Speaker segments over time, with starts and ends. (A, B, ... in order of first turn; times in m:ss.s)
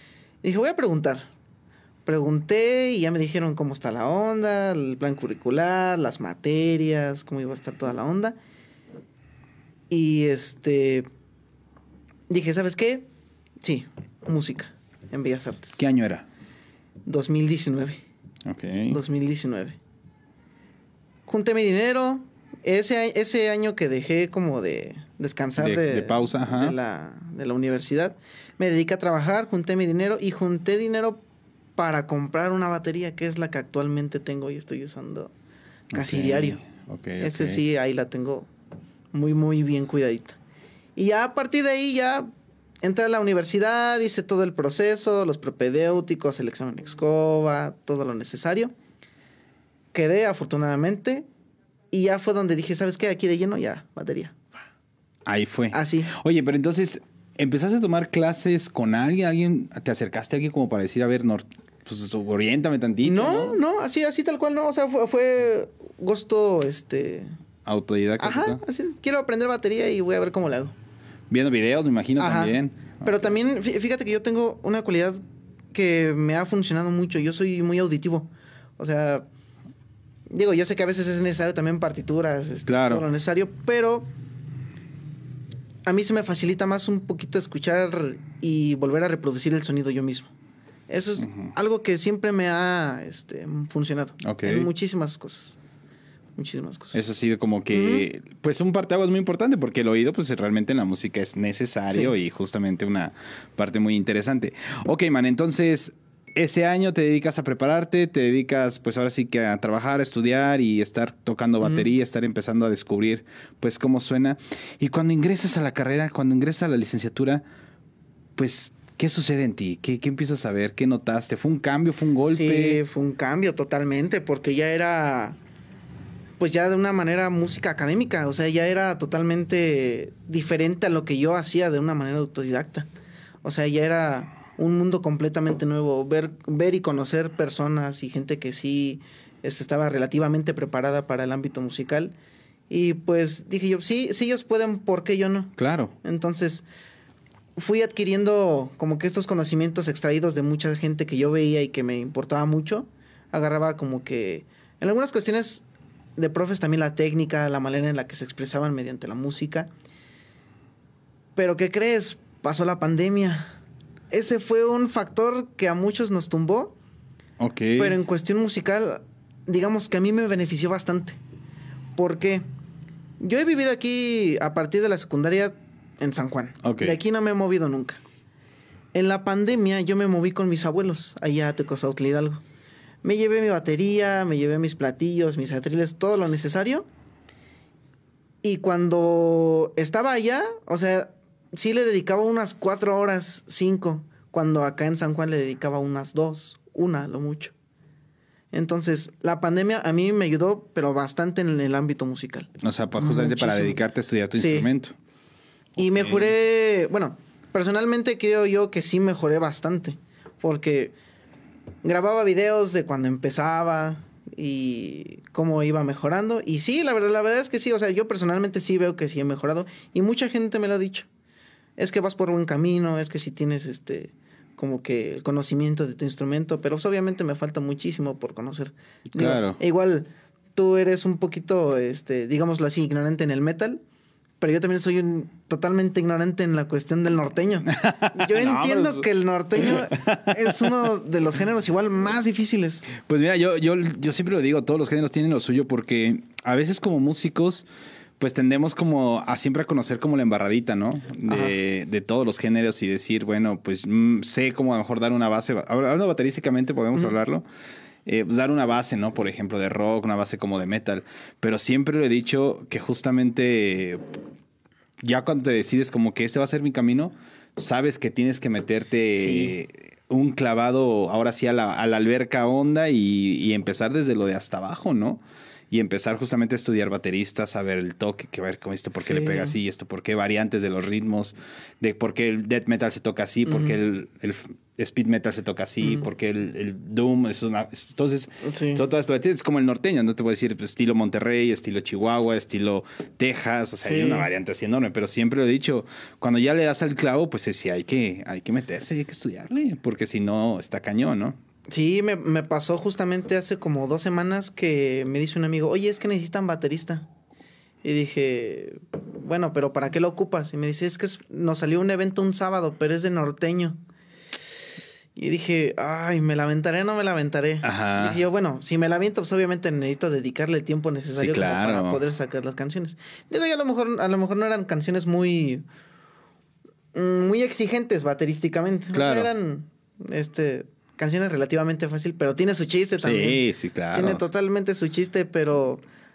0:00.4-0:01.2 A
0:02.0-0:08.4 A
0:09.9-0:11.0 A
0:12.3-0:13.1 A
0:13.6-0:15.8 A
0:15.8-0:16.2 B
0:17.0-0:18.0 A
0:18.4-0:19.0 B
0:18.9-0:19.8 A
0:21.3-0:31.2 A
0:25.6-0:26.8 B
0:31.8-0:35.3 A
0:35.9-0:37.6 B
0:35.9-0:36.6 A
0:37.2-0:38.5 A
0:39.1-0:40.4 A
0:41.0-0:42.3 A
0:42.8-0:48.7 A
0:49.9-0:51.3 A
0:51.9-0:54.6 A
0:55.2-1:03.6 B
0:55.7-0:56.1 A
1:03.0-1:07.3 A
1:07.6-1:08.6 B
1:08.2-1:10.7 A
1:11.3-1:13.0 B
1:12.2-1:15.2 A
1:15.7-1:19.3 A
1:20.3-1:24.1 A
1:22.7-1:23.0 B
1:25.8-1:30.3 A
1:30.9-1:35.6 A
1:31.2-1:31.5 B
1:34.2-1:34.7 B
1:36.4-1:37.0 A
1:36.9-1:57.4 B
1:37.7-1:38.0 A
1:51.6-1:51.9 A
1:58.4-2:02.8 B
2:02.3-2:05.4 A
2:06.4-2:12.9 A
2:13.4-2:22.1 A
2:22.7-2:26.6 A
2:25.6-2:25.9 B
2:27.6-2:35.6 A
2:36.2-2:39.7 A
2:41.4-2:43.5 A
2:44.1-2:46.7 A
2:47.4-2:48.0 B
2:47.8-2:51.2 A
2:52.0-2:52.4 A
2:53.2-2:58.0 A
2:56.6-2:57.0 B
2:58.9-3:02.4 A
3:03.0-3:06.9 A
3:08.4-3:17.5 A
3:18.5-3:23.8 A
3:22.6-3:24.9 B
3:24.3-3:24.7 A
3:25.8-3:30.9 A
3:25.8-3:26.3 B
3:31.8-3:41.1 A
3:41.8-3:53.8 A
3:49.1-3:49.6 B
3:54.4-4:02.9 A
3:57.7-4:00.7 B
4:03.0-4:07.7 B
4:08.2-4:17.4 B
4:11.3-4:11.5 A
4:18.0-4:24.0 B
4:25.0-5:01.4 B
4:29.2-4:29.5 A
4:39.0-4:39.6 A
4:43.4-4:43.8 A
4:48.4-4:48.8 A
4:53.8-4:54.3 A
5:01.7-5:07.1 A
5:07.8-5:13.8 A
5:15.2-5:25.6 A
5:17.6-5:18.2 B
5:21.2-5:22.0 B
5:26.9-5:35.8 A
5:28.9-5:29.3 B
5:33.0-5:34.2 B